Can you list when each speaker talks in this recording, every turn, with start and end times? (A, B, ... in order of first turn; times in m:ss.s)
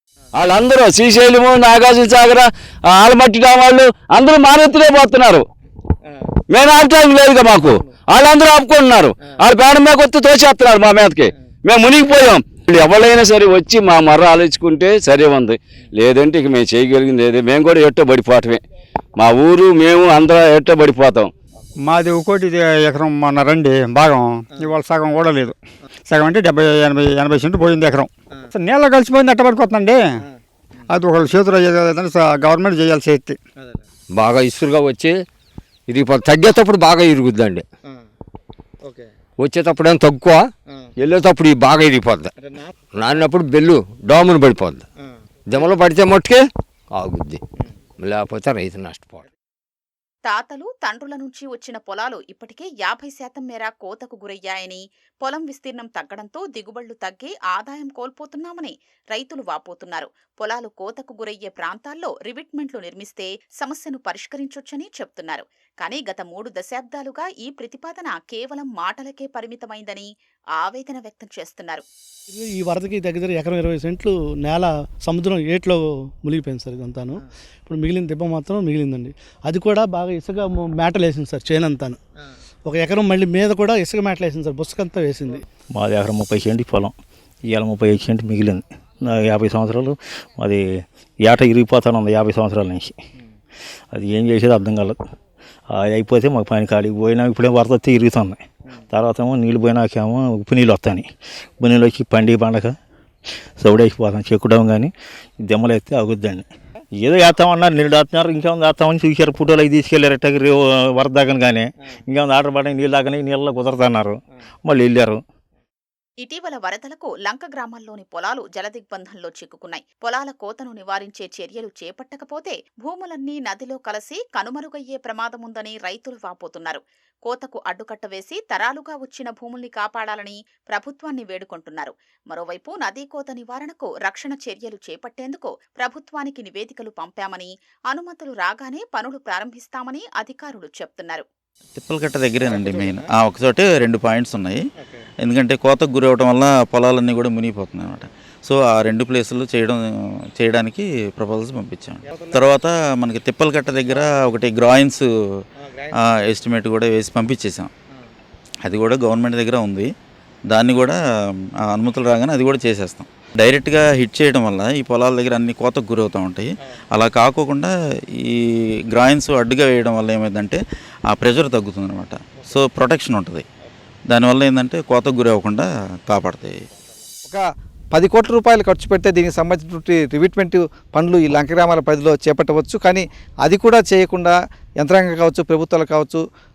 0:00.4-0:05.5 A
0:06.5-0:18.6 A
0:19.2-0:21.3 A
0:21.8-0:30.1 B
0:30.9-0:33.4 B
0:34.1-0:35.2 C
0:35.9-0:37.7 C
0:39.4-0:42.3 C
0:42.9-0:44.8 C
0:45.5-0:47.4 C
0:48.0-0:49.2 C
0:50.3-1:11.9 D
1:12.3-1:22.0 E
1:22.7-1:25.4 E
1:25.8-1:27.0 F
1:27.5-1:30.6 F
1:31.2-1:32.9 F
1:33.9-1:35.0 F
1:35.7-1:41.1 F
1:41.6-1:42.8 F
1:43.6-1:44.9 F
1:45.4-1:46.4 F
1:47.0-1:55.2 F
1:56.2-2:21.3 D
2:21.8-2:24.6 G
2:25.2-2:29.8 G
2:30.4-2:35.1 G
2:36.0-2:37.7 G
2:38.6-2:39.9 G
2:40.5-2:41.0 G
2:41.7-2:48.4 G
2:48.9-2:50.6 G
2:51.1-2:53.4 G
2:54.1-2:56.6 G
2:57.9-3:06.2 H